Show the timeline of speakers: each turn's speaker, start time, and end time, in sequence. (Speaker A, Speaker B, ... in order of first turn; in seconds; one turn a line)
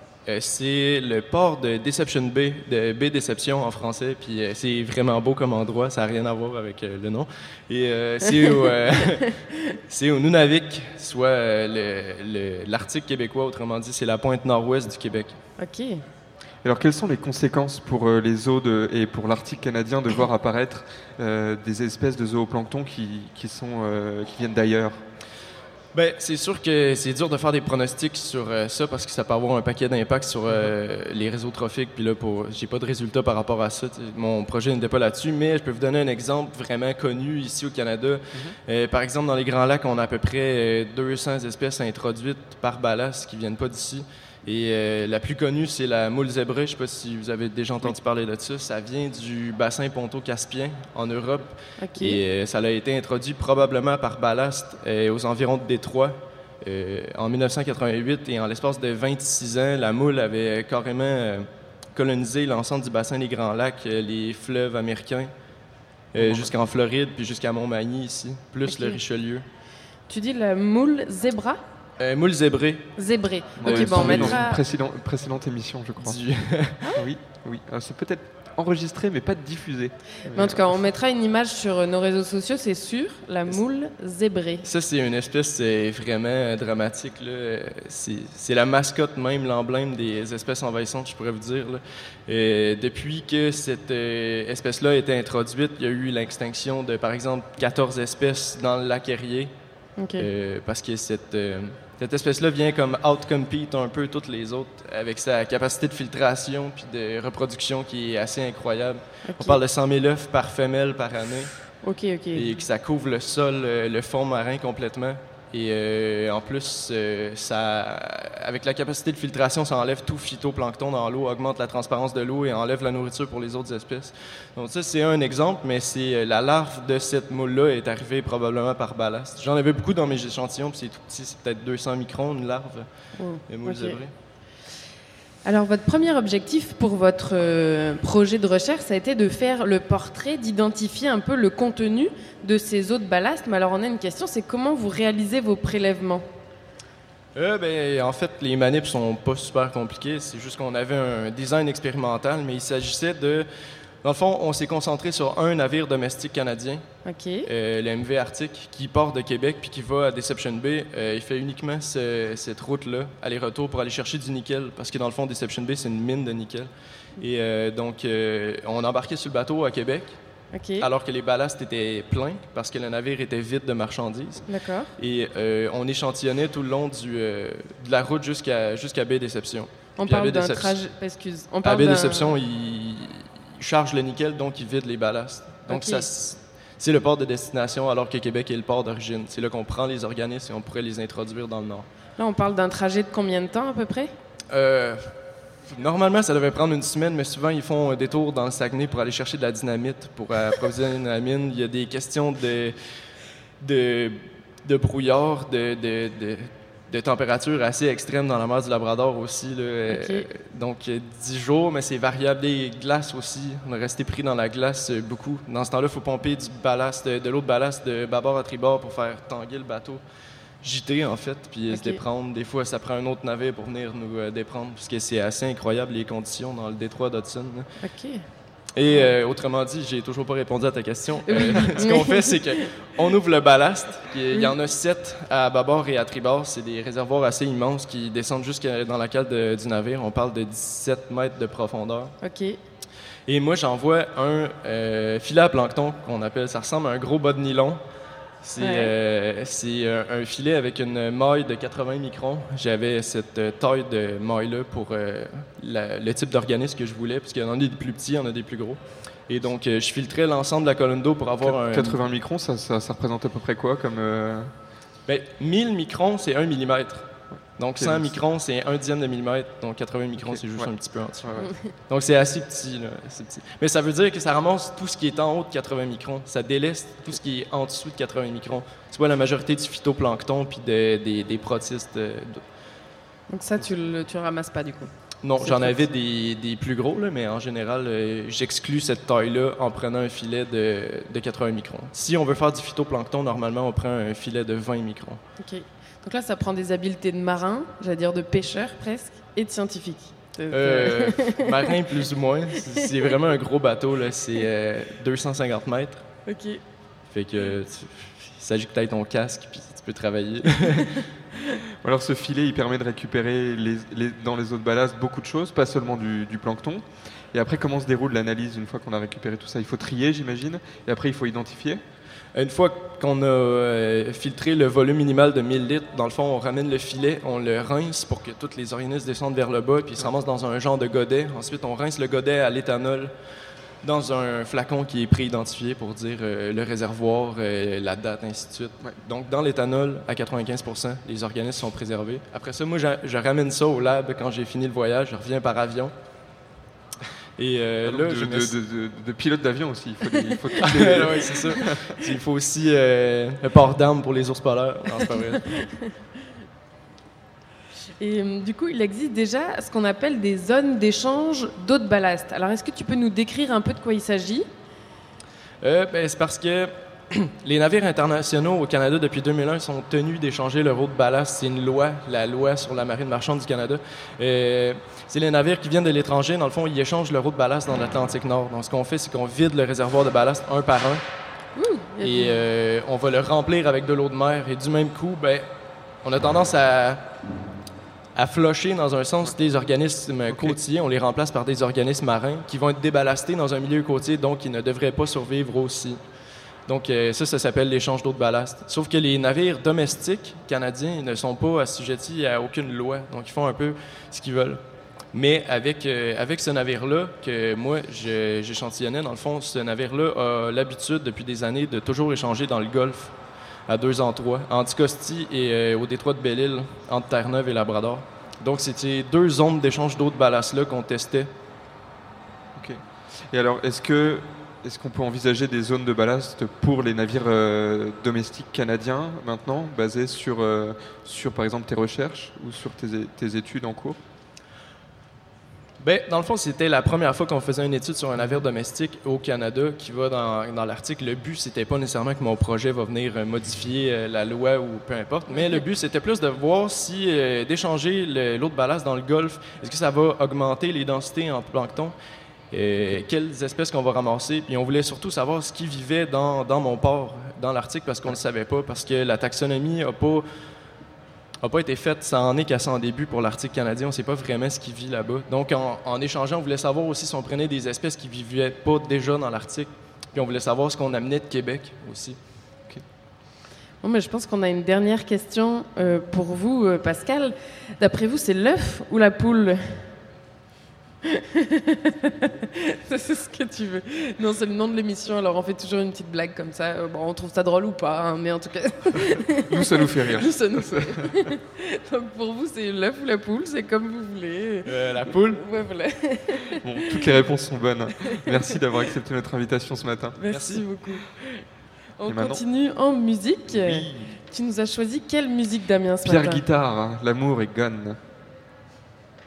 Speaker A: 0.2-15.4
Speaker B: 8.6-9.1
Speaker B: 15.6-16.0
Speaker C: 16.6-25.0
Speaker A: 25.9-65.3
Speaker B: 51.8-52.2
Speaker A: 66.1-69.5
Speaker C: 66.2-66.5
Speaker B: 68.7-69.0
Speaker B: 70.1-71.6
Speaker A: 72.0-72.9
Speaker B: 73.0-74.6
Speaker A: 73.6-74.5
Speaker C: 73.6-76.2
Speaker A: 76.0-76.8
Speaker C: 76.9-80.6
Speaker B: 80.3-84.6
Speaker A: 84.6-99.5
Speaker B: 100.0-100.3
Speaker A: 100.2-111.7
Speaker B: 109.3-109.6
Speaker B: 111.8-112.5
Speaker A: 112.3-134.1
Speaker B: 133.2-134.0
Speaker B: 135.4-146.2
Speaker A: 147.3-153.5
Speaker A: 154.0-156.8
Speaker B: 157.1-157.5
Speaker A: 157.4-170.2
Speaker B: 170.5-170.9
Speaker A: 170.8-180.8
Speaker B: 174.5-174.9
Speaker B: 180.0-182.3
Speaker A: 181.6-191.9
Speaker B: 185.7-186.1
Speaker B: 192.2-194.1
Speaker A: 194.5-195.1
Speaker A: 195.7-202.8
Speaker A: 203.6-220.0
Speaker B: 209.9-210.2
Speaker A: 220.6-227.7
Speaker B: 221.7-222.0
Speaker B: 227.8-228.2
Speaker A: 228.7-242.2
Speaker B: 231.3-232.6
Speaker B: 242.2-242.6
Speaker A: 243.3-247.8
Speaker A: 248.4-262.0
Speaker B: 248.6-248.9
Speaker C: 261.4-264.5
Speaker A: 265.1-282.4
Speaker C: 267.8-268.1
Speaker C: 270.2-271.5
Speaker B: 283.3-285.8
Speaker A: 285.2-295.2
Speaker B: 295.4-301.4
Speaker A: 300.5-306.0
Speaker B: 306.3-306.6
Speaker A: 307.1-311.0
Speaker C: 311.8-321.8
Speaker A: 322.3-333.1
Speaker A: 333.8-345.9
Speaker A: 347.4-348.5
Speaker C: 347.8-351.9
Speaker A: 350.6-355.6
Speaker B: 358.0-364.5
Speaker A: 365.6-381.0
Speaker B: 381.6-382.4
Speaker A: 382.0-385.5
Speaker A: 386.0-387.1
Speaker A: 388.1-396.0
Speaker C: 390.3-390.6
Speaker A: 396.7-404.6
Speaker A: 405.1-413.1
Speaker A: 413.7-421.3
Speaker C: 422.5-434.0
Speaker A: 435.8-451.9
Speaker B: 445.3-445.6
Speaker A: 452.5-460.2
Speaker A: 461.4-472.2
Speaker B: 473.8-479.9
Speaker B: 481.1-497.2
Speaker C: 489.4-491.3
Speaker A: 494.6-495.4
Speaker C: 496.6-500.2
Speaker B: 500.2-501.4
Speaker A: 500.3-500.7
Speaker B: 502.0-506.4
Speaker C: 502.1-502.4
Speaker C: 503.5-504.1
Speaker C: 506.0-508.0